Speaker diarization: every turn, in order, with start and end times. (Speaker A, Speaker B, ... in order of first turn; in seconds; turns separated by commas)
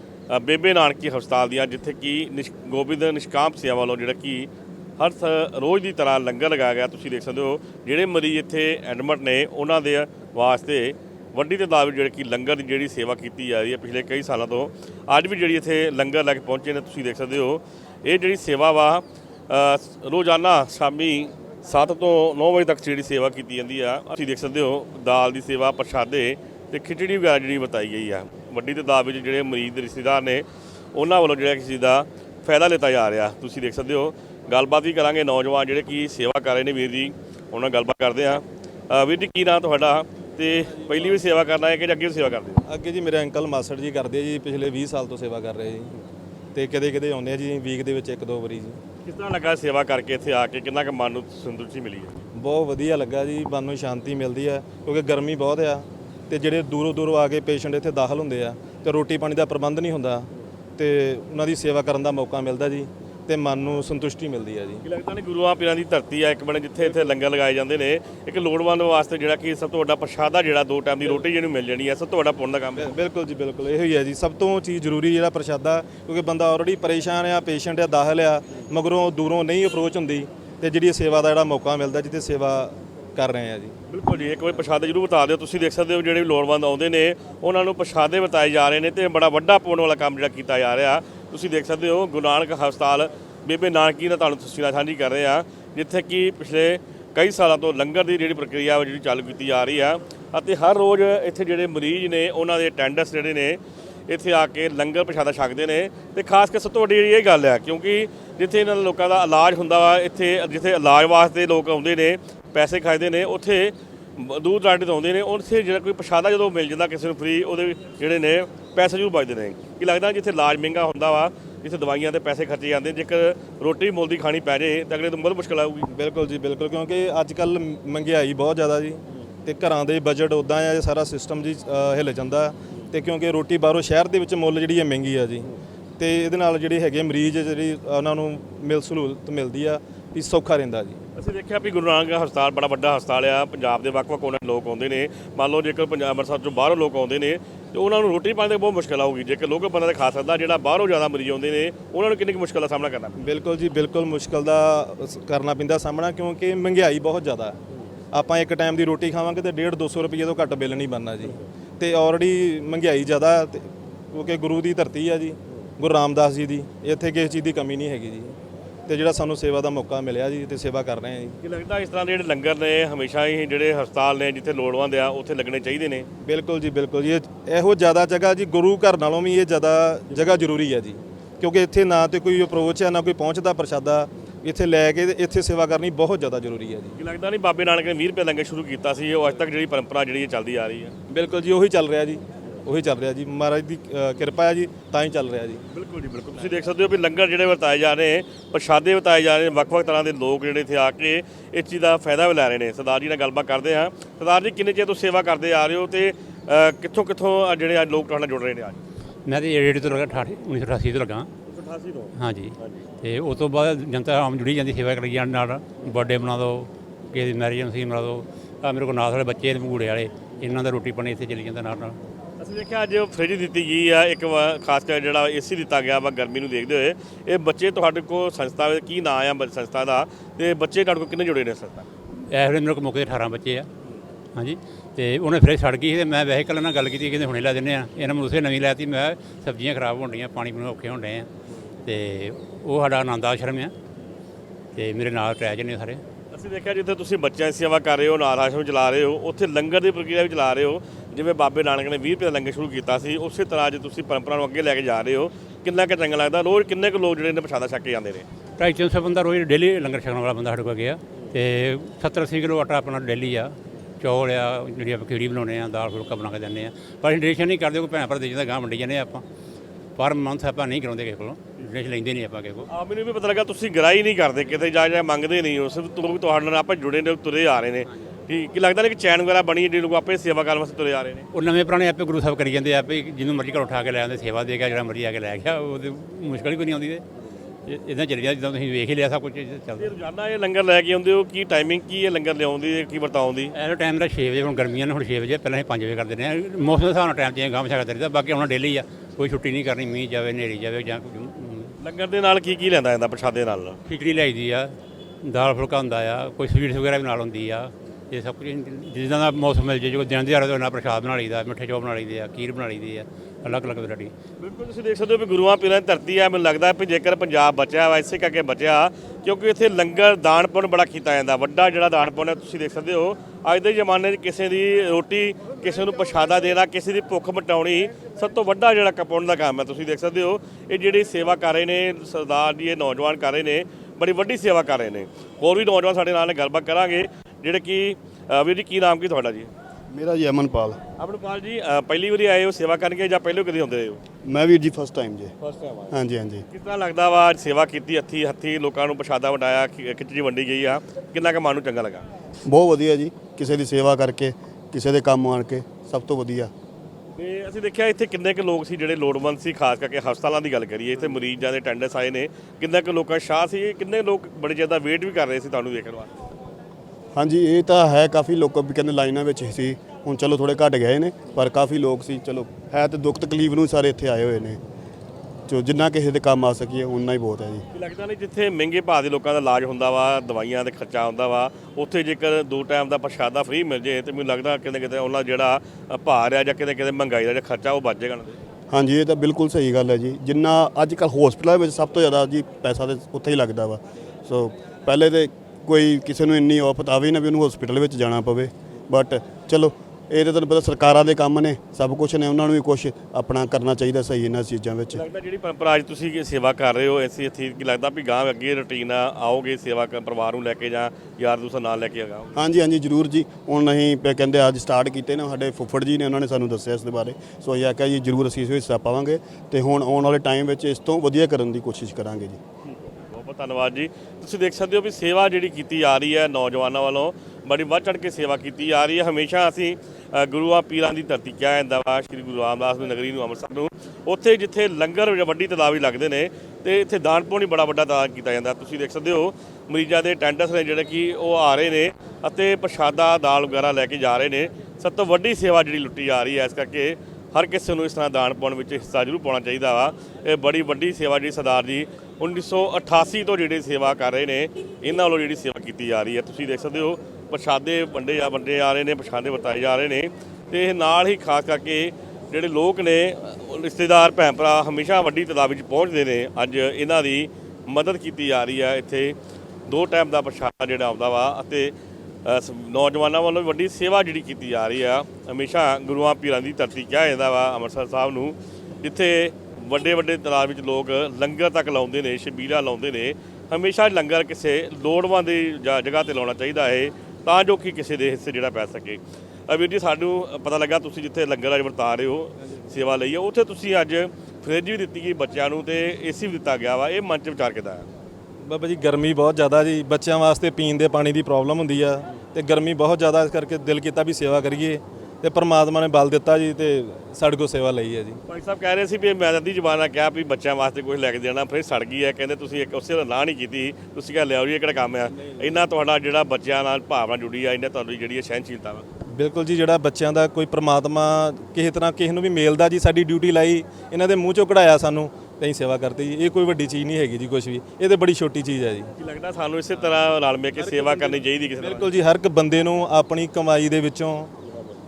Speaker A: 0.3-42.6, Speaker B: 42.6-45.9, Speaker B: 46.5-48.8, Speaker A: 49.0-52.2, Speaker B: 52.4-64.8, Speaker A: 64.8-72.9, Speaker B: 72.8-83.8, Speaker A: 83.9-125.9, Speaker B: 125.9-135.5, Speaker B: 136.0-141.0, Speaker A: 141.2-153.2, Speaker B: 153.2-157.6, Speaker B: 158.1-168.4, Speaker B: 168.9-171.4, Speaker A: 171.4-176.1, Speaker B: 176.2-187.0, Speaker A: 187.0-190.9, Speaker B: 191.1-195.6, Speaker A: 195.7-208.8, Speaker C: 209.3-211.3, Speaker A: 211.5-212.8, Speaker C: 212.2-222.0, Speaker A: 222.4-231.9, Speaker C: 232.3-233.7, Speaker C: 234.3-241.3, Speaker C: 241.8-243.7, Speaker C: 244.8-246.0, Speaker A: 246.3-258.2, Speaker C: 258.6-269.2, Speaker C: 270.0-272.7, Speaker A: 272.7-281.3, Speaker C: 281.3-287.0, Speaker C: 287.7-289.9, Speaker A: 289.8-293.5, Speaker C: 293.6-301.8, Speaker A: 301.8-303.8, Speaker C: 303.9-314.1, Speaker A: 314.4-339.5, Speaker D: 339.9-340.8, Speaker A: 341.0-344.0, Speaker D: 344.2-345.3, Speaker A: 345.4-345.9, Speaker D: 345.9-346.4, Speaker A: 346.5-352.1, Speaker D: 352.5-356.5, Speaker A: 357.2-366.1, Speaker D: 367.1-374.6, Speaker D: 375.5-377.6, Speaker A: 377.7-388.4, Speaker D: 388.7-405.0, Speaker A: 404.9-412.4, Speaker D: 412.4-422.4, Speaker A: 422.7-469.1, Speaker A: 469.7-471.7, Speaker A: 472.2-497.9, Speaker B: 498.4-508.2, Speaker A: 508.3-518.8, Speaker B: 519.1-528.9, Speaker A: 529.0-531.9, Speaker B: 530.7-534.3